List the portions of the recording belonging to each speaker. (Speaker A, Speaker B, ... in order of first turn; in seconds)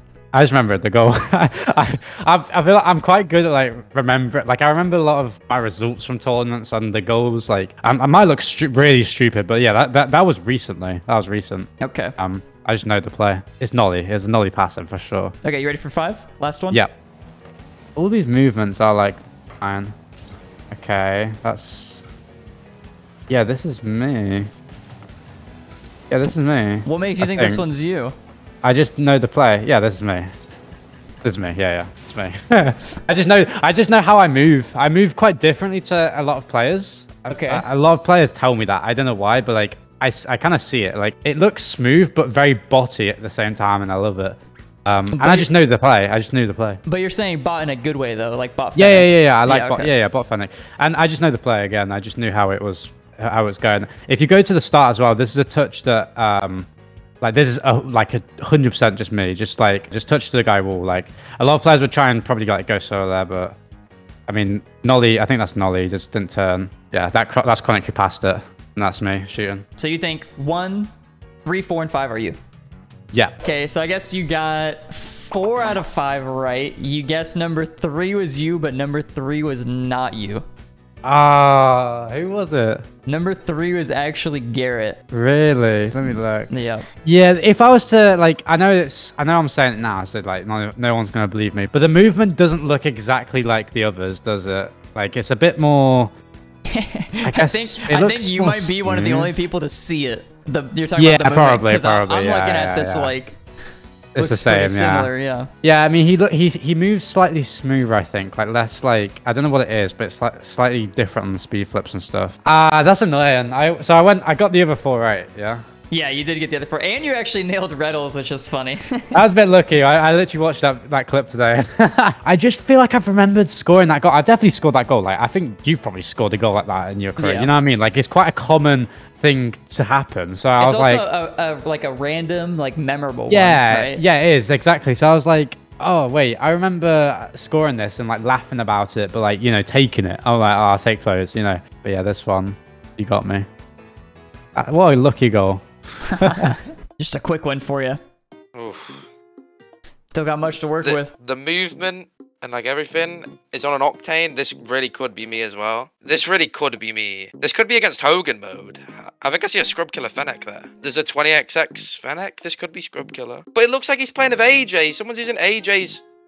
Speaker A: 0.3-15.3, 17.9-19.9, 20.7-22.0, 23.3-24.5, 26.1-27.6, 28.6-30.3, 31.2-46.8, 48.8-56.7, 57.2-63.5, 64.3-69.6, 81.0-82.8, 85.1-86.5, 87.0-96.1, 97.2-99.3, 101.0-103.1, 104.1-105.1, 105.6-115.6, 119.1-131.0, 133.3-143.5, 144.5-146.6
Speaker B: 11.8-12.2, 15.4-16.8, 26.8-28.1, 37.3-37.7, 45.1-45.5, 46.9-49.9, 69.8-70.9, 71.4-72.4, 73.4-80.4, 83.1-85.0, 86.0-86.8, 96.7-103.4, 104.2-105.5, 115.9-119.2, 127.2-127.5, 130.6-134.0, 146.1-148.0, 150.1-151.1
Speaker C: 148.5-149.0, 150.8-166.0